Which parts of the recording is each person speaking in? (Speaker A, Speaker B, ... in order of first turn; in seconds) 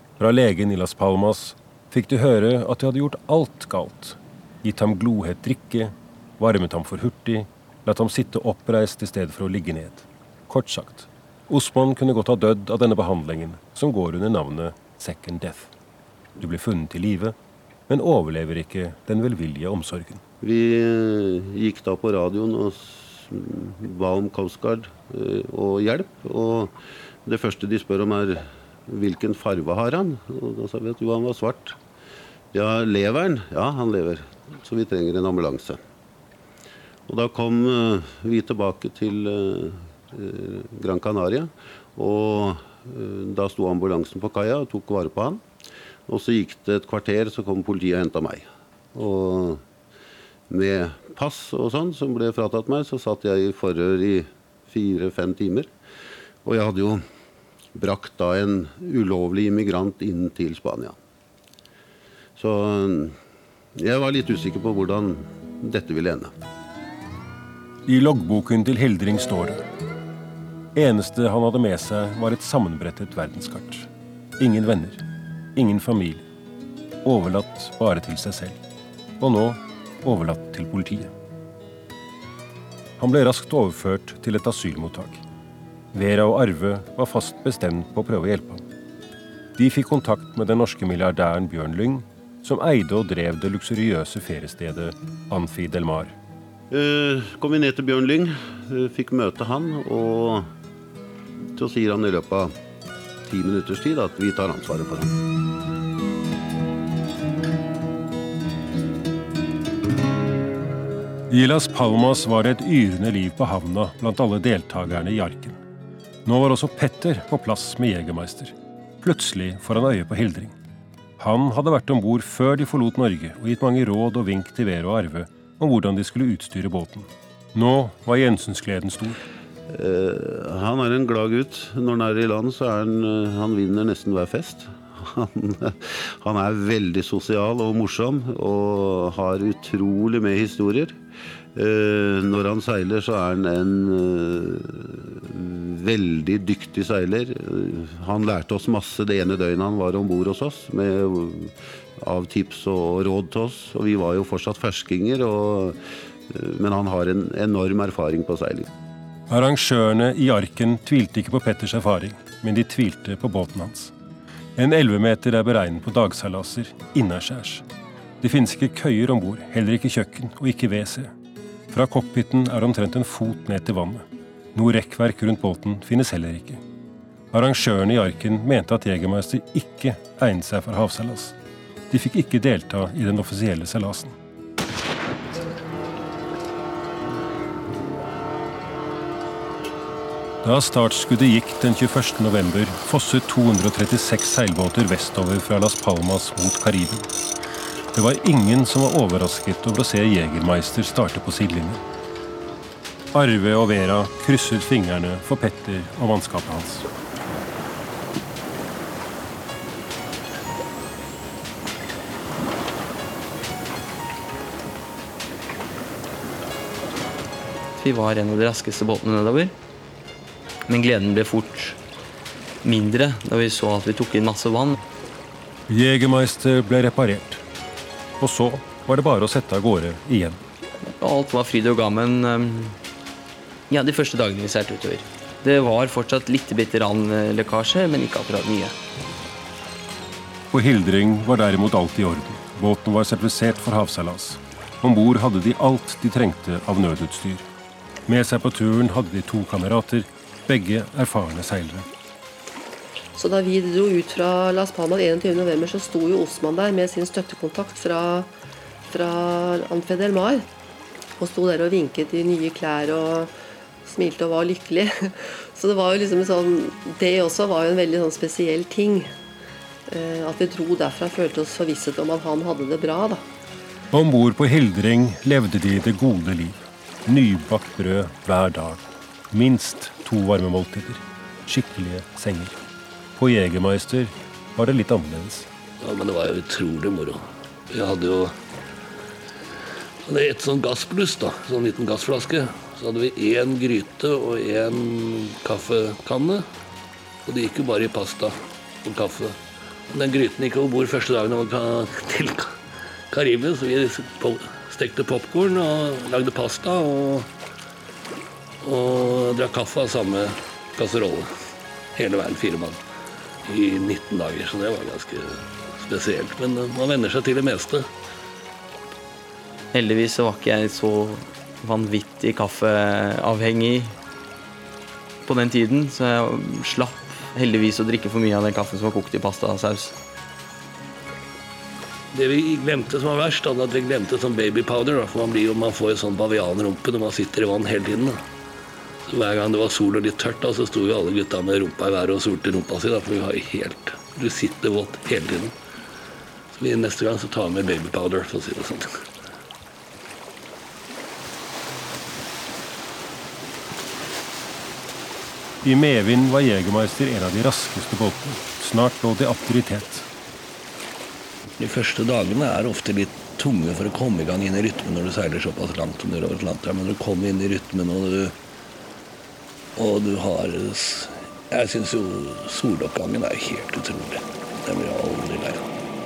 Speaker A: 0.2-15.7, 16.4-17.3, 17.9-20.2, 67.9-69.6, 70.7-75.0, 75.5-76.2, 77.0-78.6, 79.2-81.1, 83.0-85.2, 85.9-88.6, 89.6-96.1, 111.3-115.6, 116.2-120.5, 121.2-129.2, 159.3-163.9, 164.6-167.6, 168.2-171.1, 171.7-174.0, 174.5-176.6, 177.3-181.3, 181.9-184.2, 190.4-197.1, 197.9-201.8, 203.1-206.9, 225.7-227.4, 228.2-230.4, 240.5-247.4, 248.1-251.9, 273.9-282.6, 283.2-285.5, 355.6-360.1
Speaker B: 20.4-26.7, 27.2-31.8, 32.5-35.8, 37.1-45.4, 46.1-49.6, 50.5-55.7, 56.4-57.0, 57.7-61.0, 62.4-63.2, 63.8-66.3, 96.7-100.5, 101.5-102.5, 103.2-105.2, 129.7-141.0, 141.5-155.8, 156.3-158.7
Speaker C: 217.8-219.5, 220.7-221.8, 222.6-224.8, 231.0-232.8, 233.7-238.8, 319.7-323.9, 325.2-329.9
Speaker D: 253.1-258.3, 258.9-260.4, 261.2-263.3, 263.8-269.1, 269.9-273.2
Speaker E: 285.8-288.3, 290.0-296.4, 297.2-299.4, 299.9-302.6, 303.1-307.3, 308.6-311.3, 311.9-312.8, 313.4-317.9, 332.1-338.2, 339.1-345.5, 346.5-349.0, 361.6-368.3, 369.8-375.7